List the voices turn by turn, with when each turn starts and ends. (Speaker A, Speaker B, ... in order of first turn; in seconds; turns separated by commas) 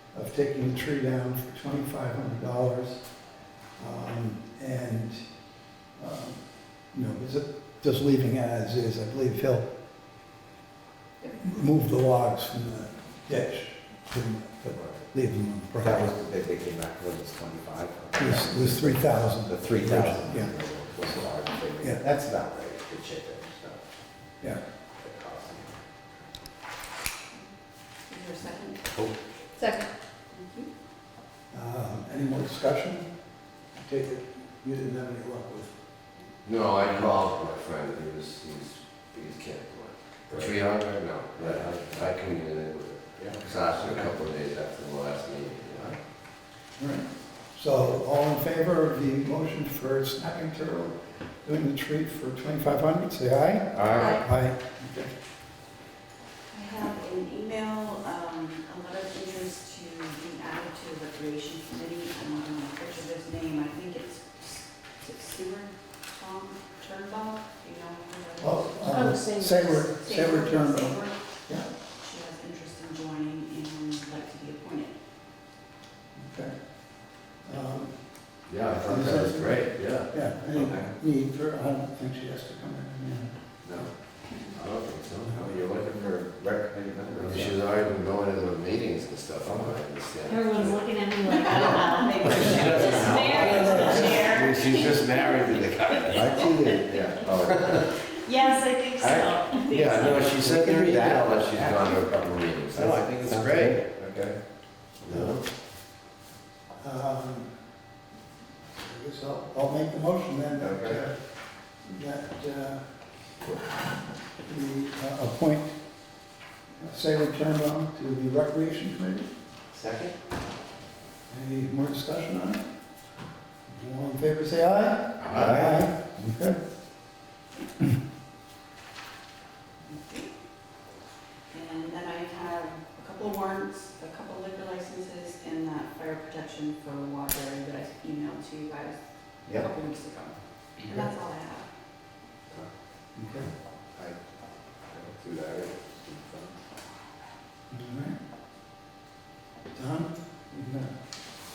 Speaker A: 0.1-3.0, Speaker A: 3.8-5.2, Speaker A: 6.0-6.4, Speaker A: 6.9-9.7, Speaker A: 11.4-16.1, Speaker B: 15.8-23.8, Speaker A: 18.2-21.2, Speaker B: 25.0-25.8, Speaker C: 28.1-28.9, Speaker D: 29.6-29.9, Speaker C: 30.3-30.7, Speaker A: 31.5-33.1, Speaker A: 33.7-35.7, Speaker E: 36.5-46.0, Speaker B: 40.3-40.6, Speaker B: 41.4-41.9, Speaker B: 43.2-44.1, Speaker A: 46.8-55.1, Speaker B: 53.7-54.2, Speaker C: 56.5-69.0, Speaker A: 68.4-71.7, Speaker D: 68.9-69.9, Speaker C: 69.9-71.2, Speaker C: 72.0-75.0, Speaker A: 76.2-76.5, Speaker A: 77.5-78.0, Speaker E: 78.5-80.1, Speaker A: 78.8-83.3, Speaker B: 80.5-81.0, Speaker B: 83.6-83.9, Speaker E: 84.5-85.5, Speaker B: 85.3-87.6, Speaker E: 87.2-91.0, Speaker B: 89.4-89.8, Speaker D: 90.2-96.9, Speaker C: 91.2-95.1, Speaker E: 92.2-98.0, Speaker B: 93.7-94.2, Speaker B: 96.1-97.9, Speaker C: 96.2-96.6, Speaker D: 98.2-100.5, Speaker C: 98.3-98.7, Speaker B: 99.0-99.3, Speaker E: 99.5-104.1, Speaker B: 100.3-104.3, Speaker E: 105.0-105.5, Speaker B: 105.1-105.3, Speaker A: 106.8-107.5, Speaker A: 108.8-111.2, Speaker E: 110.6-110.9, Speaker A: 111.8-112.8, Speaker A: 114.5-115.8, Speaker A: 116.8-119.3, Speaker B: 119.7-120.1, Speaker A: 121.3-122.6, Speaker A: 123.7-126.6, Speaker E: 125.2-125.6, Speaker B: 125.3-125.9, Speaker C: 129.9-130.3, Speaker C: 131.5-141.7, Speaker A: 143.2-143.5, Speaker B: 144.9-146.6, Speaker A: 147.7-148.2, Speaker A: 149.7-150.9